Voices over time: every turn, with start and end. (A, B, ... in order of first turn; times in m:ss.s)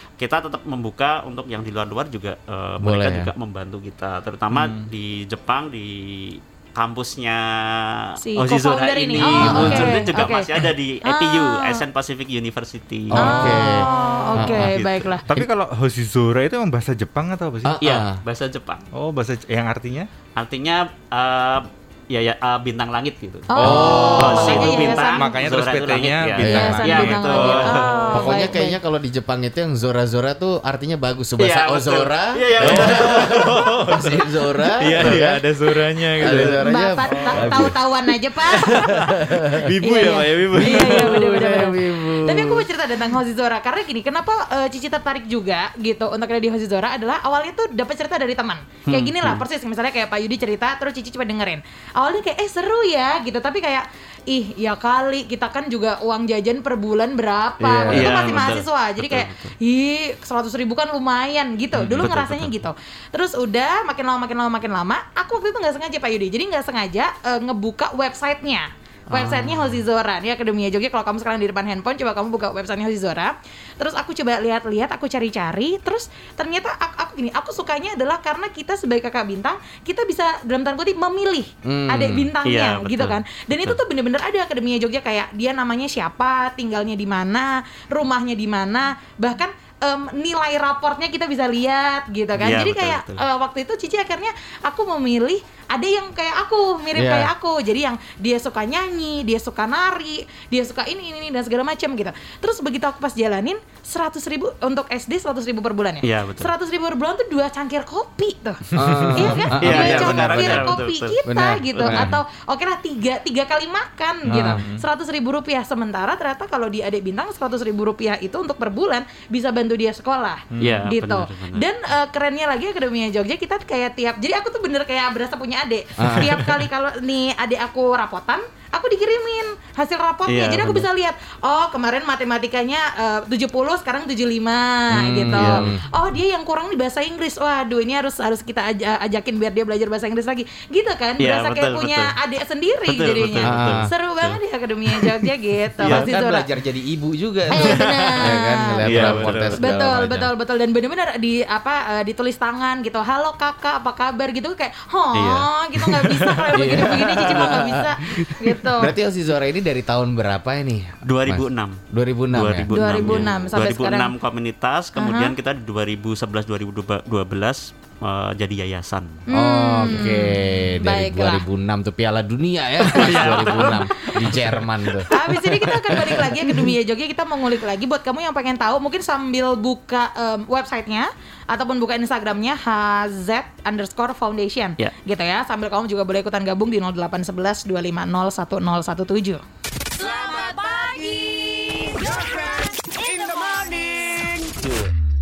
0:00.2-0:13.6 A
0:02.8-0:03.3 B
0:04.5-0:04.9 C
0:08.2-0:11.8 D
0:09.2-0:10.0 B
0:09.5-0:09.9 C
0:13.1-0:14.7 B
0:13.2-0:15.2 D
0:14.3-0:17.8 C
0:17.6-0:18.2 B
0:17.8-0:18.8 A
0:18.9-0:20.1 C
0:20.4-0:28.5 A
0:23.5-0:25.2 D
0:23.6-0:27.7 C
0:23.6-0:24.8 B
0:26.4-0:35.4 B
0:26.5-0:28.8 D
0:31.4-0:33.7 A
0:32.6-0:36.6 C
0:36.2-0:37.8 B
0:36.3-0:39.2 D
0:37.2-0:37.7 C
0:38.5-0:41.4 C
0:38.6-0:39.7 B
0:39.8-2:26.4 D
0:40.6-0:42.7 B
0:48.8-0:49.4 A
0:57.6-0:58.2 B
0:57.9-0:59.5 A
1:01.8-1:02.1 B
1:02.0-1:02.6 A
1:09.1-1:09.7 B
1:21.6-1:22.3 B
1:22.4-1:23.8 A
1:32.4-1:33.2 A
1:36.9-1:37.3 B
1:46.0-1:46.5 A
1:48.8-1:49.9 C
1:48.8-1:50.7 B
1:49.6-1:51.2 A
1:51.2-1:52.1 B
1:51.7-1:52.1 A
1:54.3-1:54.6 B
1:54.3-1:54.8 C
2:00.5-2:00.9 C
2:00.6-2:01.6 A
2:06.0-2:06.4 B
2:10.2-2:10.9 A
2:14.9-2:15.8 B
2:15.3-2:15.7 A
2:21.2-2:22.1 A
2:22.8-2:26.1 A
2:23.4-2:23.9 B
2:25.8-2:30.3 B
2:27.5-2:38.9 D
2:28.8-2:29.7 A
2:28.9-2:29.6 C
2:35.1-2:35.5 A
2:35.9-2:36.7 C
2:36.5-2:37.9 B
2:36.8-2:37.6 A
2:38.7-2:43.2 B
2:41.0-2:49.2 A
2:42.7-2:44.1 D
2:45.0-2:45.3 D
2:49.3-2:51.4 D
2:49.3-2:55.1 B
2:52.9-2:55.3 A
2:52.9-2:53.8 D
2:55.1-3:09.4 D
2:55.6-2:56.3 B
3:10.4-3:11.2 D